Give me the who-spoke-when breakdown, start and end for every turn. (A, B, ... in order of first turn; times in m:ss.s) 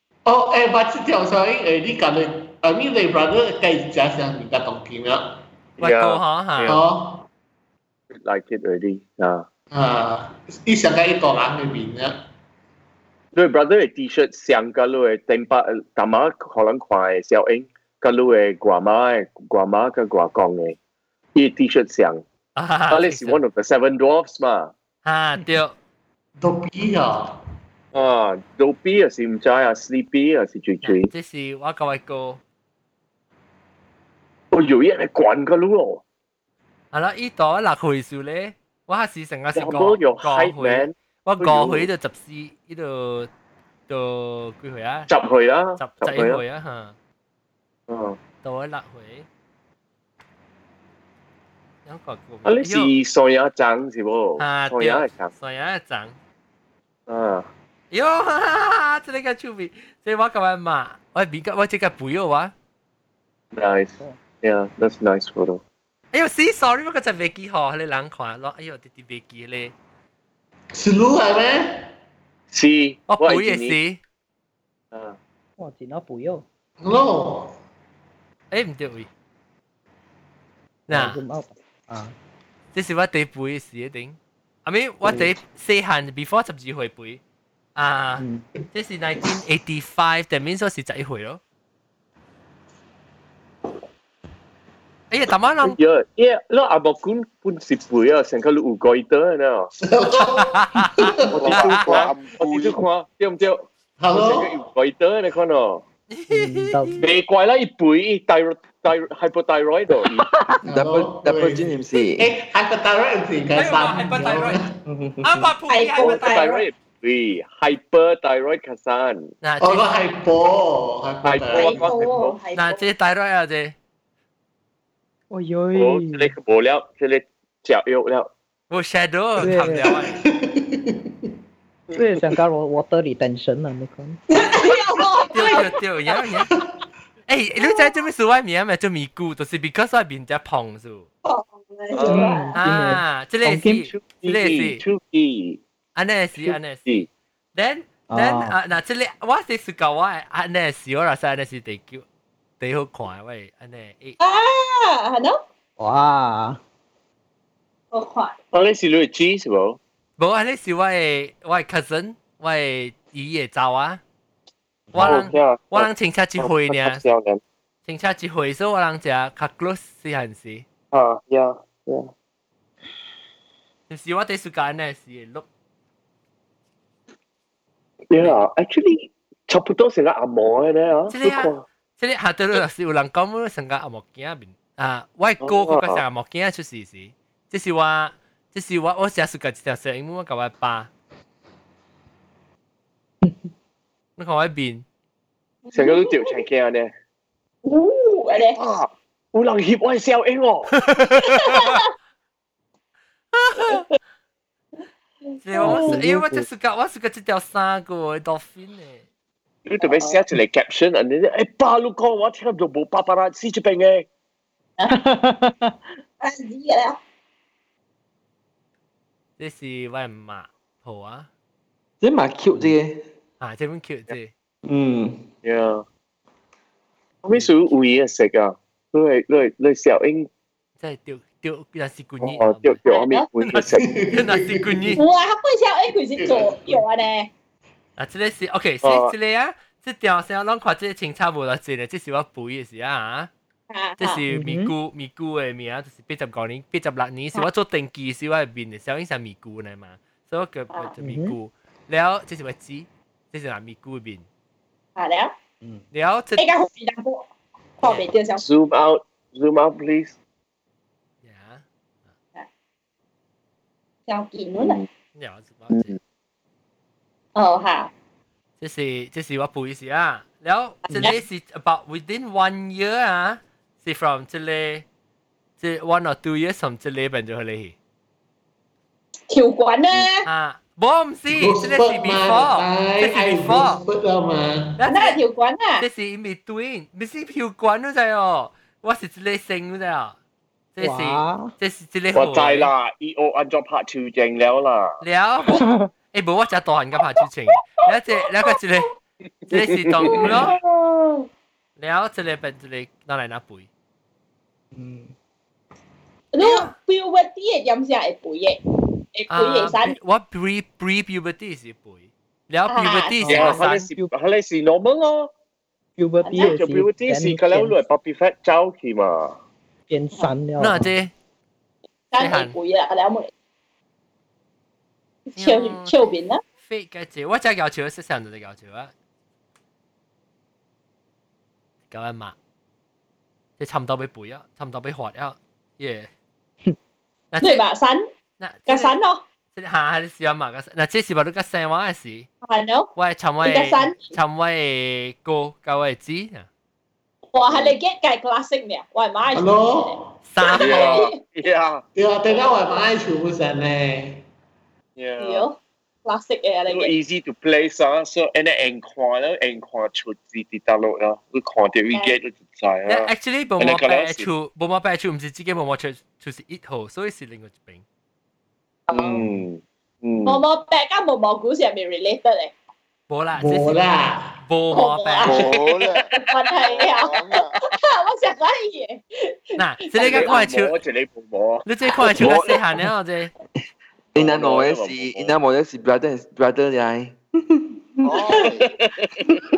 0:00.2-0:05.4 A
0:05.8-0:06.8 B
0:05.8-0:06.8 C
0:06.7-0:07.2 A
0:08.2-0:09.4 B
0:09.7-0:12.2 A
0:13.3-0:20.8 B
0:21.3-0:22.2 B
0:22.6-0:23.4 C
0:22.9-0:24.7 B
0:25.0-0:25.8 C
0:26.4-0:27.3 A
0:27.9-0:31.1 B
0:30.8-0:32.4 C
0:34.5-0:36.0 B
0:36.9-0:43.3 C
0:39.5-0:41.9 B
0:43.9-0:45.1 C
0:45.1-0:46.4 B
0:45.8-0:47.0 C
0:47.9-0:48.2 B
0:48.4-0:49.2 C
0:51.8-0:52.9 C
0:52.4-0:55.3 B
0:54.4-0:56.2 C
0:57.1-0:57.5 B
0:57.9-1:02.5 C
1:03.5-1:05.6 B
1:06.1-1:09.7 C
1:10.7-1:11.9 A
1:12.5-1:13.8 B
1:13.1-1:14.0 C
1:14.9-1:15.2 B
1:15.6-1:16.4 D
1:16.8-1:17.5 A
1:18.5-1:19.1 C
1:20.9-1:21.2 C
1:20.9-1:22.1 D
1:22.7-1:27.2 C
1:27.8-1:31.4 C
1:28.2-1:28.4 D
1:35.1-1:35.8 C
1:35.6-1:39.7 B
1:39.8-1:41.5 A
1:40.3-1:42.0 C
1:41.3-1:45.8 B
1:41.4-1:42.8 E
1:44.0-1:44.6 A
1:46.1-1:47.0 C
1:46.3-1:47.0 D
1:47.0-1:50.2 B
1:50.2-1:52.3 F
1:50.6-1:54.7 A
1:53.5-1:54.6 C
1:54.8-1:55.5 F
1:55.2-1:56.5 C
1:55.7-1:56.6 G
1:56.0-1:59.3 B
1:59.4-1:59.9 C
1:59.6-2:01.9 A
2:01.2-2:02.4 B
2:01.5-2:02.8 G
2:02.5-2:03.8 C
2:05.3-2:06.3 D
2:05.7-2:08.3 B
2:08.7-2:10.2 C
2:09.4-2:09.9 D
2:09.9-2:11.3 A
2:11.9-2:14.2 D
2:14.3-2:15.7 G
2:15.3-2:16.5 C
2:17.3-2:21.0 C
2:21.2-2:22.6 G
2:21.9-2:22.4 B
2:22.0-2:23.9 D
2:22.5-2:24.8 C
2:24.0-2:25.6 B
2:26.0-2:26.9 C
2:26.4-2:27.1 B
2:27.5-2:32.0 C
2:28.1-2:28.6 D
2:32.6-2:34.2 C
2:34.2-2:35.4 G
2:35.8-2:36.6 D
2:37.9-2:38.3 G
2:38.5-2:39.8 B
2:40.2-2:44.0 C
2:44.9-2:45.3 D
2:44.9-2:47.0 C
2:45.0-2:47.4 B
2:47.8-2:50.6 C
2:50.9-2:52.1 B
2:53.9-2:55.4 C
2:58.1-3:01.6 B
3:01.1-3:10.9 C
3:05.4-3:06.0 B
3:14.2-3:14.8 C
3:15.7-3:16.4 G
3:15.7-3:16.9 B
3:17.6-3:18.6 G
3:18.3-3:20.8 B
3:20.8-3:21.8 C
3:21.2-3:21.9 G
3:23.3-3:23.8 C
3:25.4-3:29.0 C
3:25.6-3:25.9 G
3:25.6-3:26.4 D
3:25.7-3:25.9 B
3:29.6-3:34.1 B
3:29.8-3:30.2 G
3:34.9-3:35.8 D
3:36.2-3:37.0 G
3:39.4-3:41.3 C
3:42.0-3:43.0 F
3:43.4-3:44.3 C
3:44.6-3:45.2 F
3:45.4-3:45.8 B
3:47.2-3:50.3 B
3:50.8-3:52.8 C
3:52.2-3:53.8 B
3:52.9-3:53.3 G
3:53.4-3:55.0 C
3:53.8-3:55.0 A
3:55.0-3:57.3 G
3:56.2-3:56.8 A
3:58.0-4:03.3 C
3:58.8-3:59.1 B
4:03.7-4:04.2 G
4:04.0-4:14.2 C
4:04.3-4:04.7 D
4:11.0-4:11.4 D
4:15.0-4:15.3 G
4:15.9-4:16.4 C
4:16.4-4:17.2 G
4:17.8-4:18.4 G
4:18.4-4:20.1 B
4:21.2-4:21.6 C
4:24.1-4:24.8 G
4:24.6-4:24.9 B
4:25.2-4:25.9 C
4:25.7-4:26.0 B
4:27.4-4:27.9 G
4:28.6-4:34.8 C
4:30.9-4:31.2 G
4:30.9-4:31.2 D
4:35.6-4:37.7 C
4:39.3-4:40.3 G
4:40.2-4:43.8 C
4:41.3-4:44.8 A
4:44.8-4:45.2 C
4:44.9-4:45.8 G
4:45.8-4:50.2 C
4:50.8-4:52.7 C
4:50.8-4:51.5 D
4:52.1-4:55.0 B
4:55.0-4:58.9 C
4:55.6-4:55.9 D
4:59.4-5:00.4 B
4:59.5-5:00.6 C
5:00.1-5:00.7 G
5:01.8-5:03.7 C
5:04.7-5:05.1 D
5:06.3-5:08.6 G
5:06.4-5:06.7 C
5:09.1-5:10.0 G
5:09.3-5:13.9 C
5:12.7-5:13.3 G
5:13.2-5:14.1 D
5:13.3-5:15.3 B
5:16.0-5:17.8 D
5:16.2-5:16.6 G
5:16.4-5:19.4 B
5:19.9-5:20.9 D
5:20.6-5:21.1 C
5:22.1-5:23.3 G
5:22.2-5:22.5 C
5:25.3-5:26.4 G
5:25.4-5:26.1 C
5:26.6-5:28.9 C
5:31.9-5:32.3 C
5:33.6-5:36.1 C
5:37.3-5:37.6 C
5:37.4-5:38.0 G
5:38.4-5:38.9 C
5:38.7-5:39.2 G
5:39.5-5:42.3 C
5:42.4-5:42.9 G
5:43.0-5:46.5 C
5:43.4-5:44.1 G
5:47.3-5:51.2 G
5:47.5-5:47.7 B
5:49.3-5:50.9 A
5:50.2-5:50.8 C
5:50.6-5:52.8 B
5:51.9-5:54.2 A
5:55.0-5:55.4 B
5:55.2-5:56.9 G
5:56.7-6:04.3 B
6:02.9-6:07.8 C
6:08.9-6:10.4 B
6:10.2-6:12.5 G
6:13.1-6:13.8 C
6:13.3-6:14.4 A
6:14.4-6:15.5 C
6:14.7-6:15.6 G
6:15.2-6:16.1 E
6:16.1-6:20.4 G
6:16.6-6:16.9 B
6:16.8-6:17.6 E
6:19.6-6:20.8 C
6:20.0-6:22.6 B
6:21.6-6:23.3 C
6:24.1-6:27.7 F
6:24.2-6:25.3 B
6:28.0-6:28.7 E
6:28.2-6:29.3 B